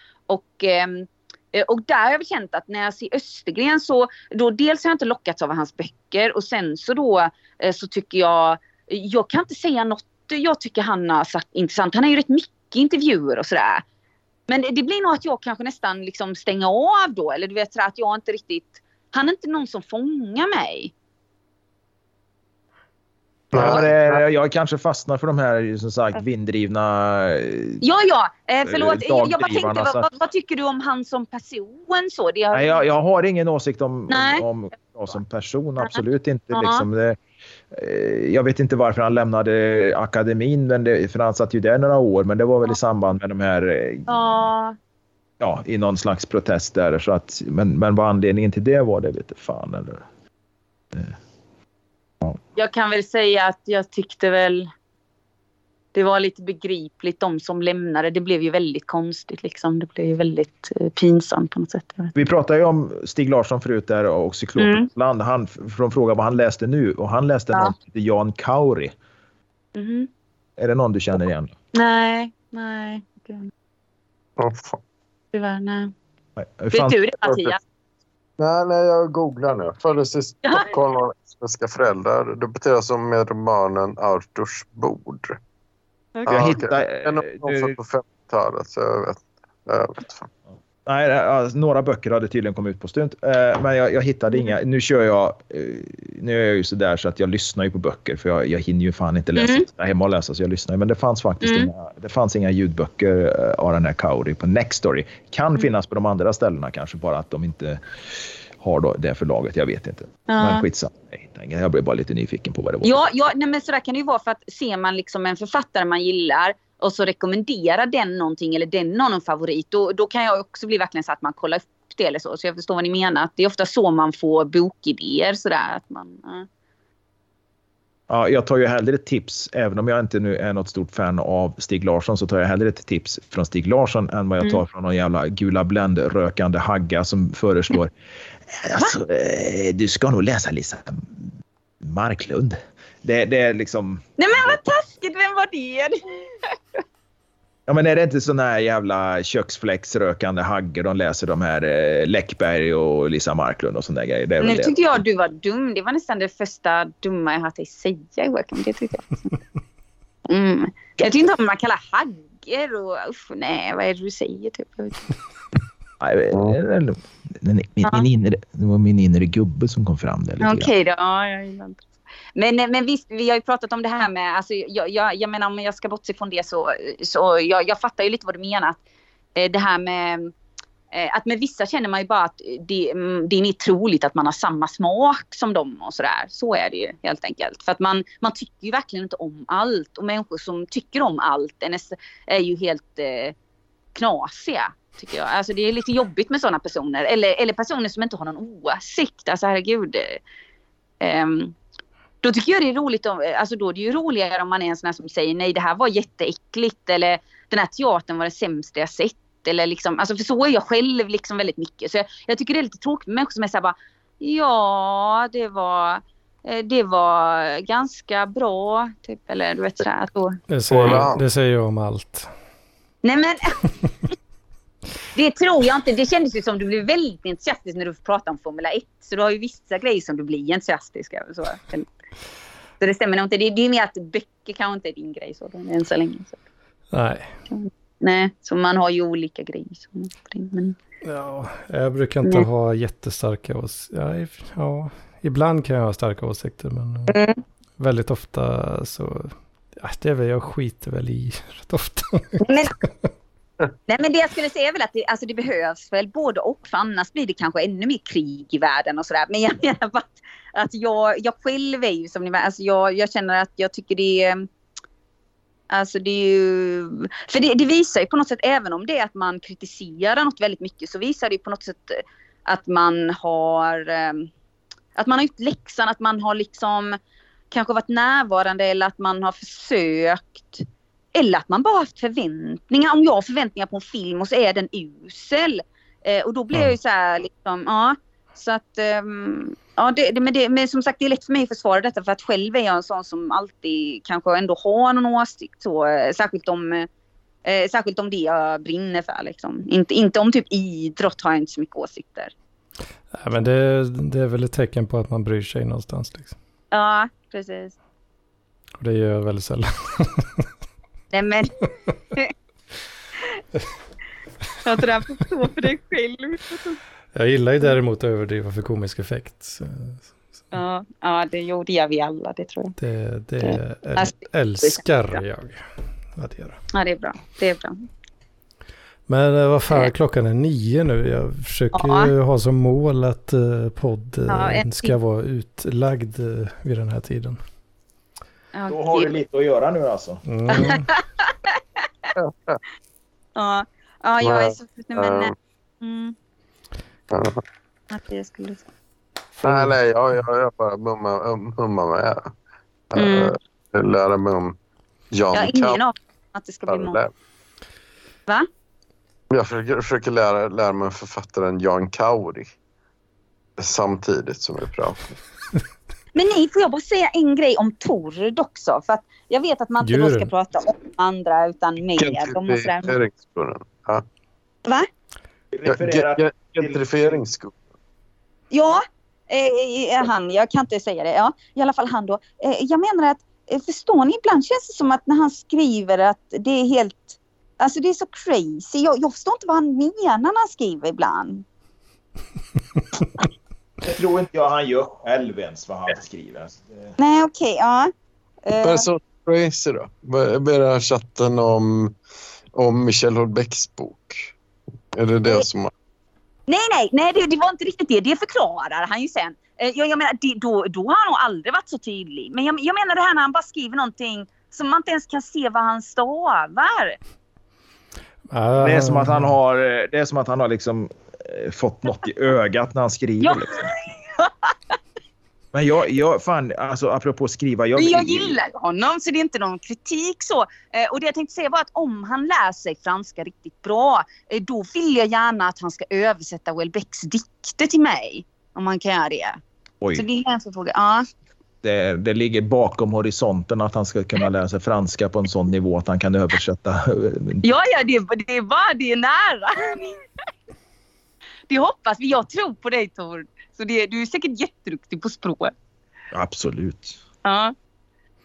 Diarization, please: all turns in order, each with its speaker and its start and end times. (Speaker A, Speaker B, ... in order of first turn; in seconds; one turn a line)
Speaker A: 0.3-13.8
Speaker A: 14.5-20.9
Speaker B: 23.5-24.2
Speaker C: 23.5-27.8
Speaker A: 27.8-32.8
Speaker C: 28.7-30.1
Speaker C: 32.5-37.2
Speaker A: 34.1-34.4
Speaker A: 36.5-36.9
Speaker C: 37.7-44.4
Speaker A: 44.1-44.8
Speaker C: 45.4-50.0
Speaker A: 52.5-54.7
Speaker A: 55.9-62.1
Speaker C: 62.1-68.9
Speaker A: 64.6-64.9
Speaker A: 69.7-70.1
Speaker C: 70.6-71.5
Speaker A: 71.7-73.5
Speaker B: 74.4-74.8
Speaker A: 75.3-75.9
Speaker C: 76.4-77.0
Speaker A: 76.7-77.6
Speaker B: 78.4-85.4
Speaker A: 80.4-80.7
Speaker A: 86.2-86.6
Speaker B: 86.2-90.3
Speaker C: 86.3-87.8
Speaker C: 90.8-107.8
Speaker A: 99.4-99.7
Speaker A: 101.4-101.7
Speaker C: 108.6-113.0
Speaker A: 110.3-110.7
Speaker A: 112.8-126.5
Speaker C: 128.1-137.9
Speaker C: 138.5-141.1
Speaker C: 141.8-144.6
Speaker A: 144.2-146.8
Speaker C: 147.7-154.8
Speaker A: 154.4-159.3
Speaker A: 160.3-165.1
Speaker C: 166.0-170.7
Speaker B: 166.3-166.6
Speaker A: 170.4-171.8
Speaker A: 172.3-178.8
Speaker A: 179.3-180.3
Speaker A: 180.9-193.3
Speaker A: 193.9-200.2
Speaker A: 201.0-201.5
Speaker A: 202.2-220.4
Speaker D: 220.5-222.3
Speaker B: 220.7-221.2
Speaker A: 223.0-223.6
Speaker A: 225.1-231.9
Speaker A: 232.8-236.4
Speaker D: 236.9-237.4
Speaker A: 237.5-240.8
Speaker D: 241.0-247.2
Speaker A: 247.1-247.4
Speaker D: 247.8-252.5
Speaker A: 252.4-252.7
Speaker A: 253.9-264.5
Speaker A: 265.7-274.3
Speaker A: 274.9-277.0
Speaker A: 277.5-296.9
Speaker A: 297.4-302.3
Speaker D: 303.2-306.3
Speaker A: 306.7-307.8
Speaker D: 308.8-310.4
Speaker A: 311.1-312.3
Speaker A: 314.6-316.8
Speaker D: 317.1-320.1
Speaker A: 320.5-322.7
Speaker D: 322.8-326.6
Speaker A: 323.4-325.2
Speaker A: 326.7-327.9
Speaker D: 329.1-337.4
Speaker A: 331.7-332.1
Speaker A: 334.3-335.0
Speaker A: 338.5-339.1
Speaker C: 338.7-340.2
Speaker D: 340.2-340.9
Speaker A: 340.5-341.5
Speaker B: 342.1-342.6
Speaker A: 343.4-346.1
Speaker B: 344.2-345.3
Speaker B: 347.1-347.4
Speaker A: 347.9-348.6
Speaker B: 349.4-352.3
Speaker D: 349.4-349.7
Speaker B: 352.9-354.6
Speaker A: 352.9-353.3
Speaker B: 355.1-355.8
Speaker A: 355.3-357.0
Speaker B: 356.7-357.1
Speaker B: 359.3-362.5
Speaker B: 363.6-365.1
Speaker A: 366.1-372.9
Speaker D: 369.8-370.3
Speaker B: 372.0-374.0
Speaker C: 375.5-376.8
Speaker B: 375.6-377.6
Speaker A: 378.5-391.4
Speaker C: 393.8-396.9
Speaker A: 397.0-397.9
Speaker A: 398.4-398.9
Speaker B: 398.6-402.0
Speaker B: 402.5-404.3
Speaker B: 404.9-405.7
Speaker A: 406.5-417.0
Speaker D: 418.3-419.4
Speaker C: 418.6-423.7
Speaker A: 423.2-424.5
Speaker C: 425.5-428.4
Speaker A: 427.8-439.4
Speaker A: 439.9-441.1
Speaker C: 441.6-447.4
Speaker A: 447.4-450.1
Speaker A: 451.5-455.5
Speaker C: 456.1-457.0
Speaker A: 457.2-457.5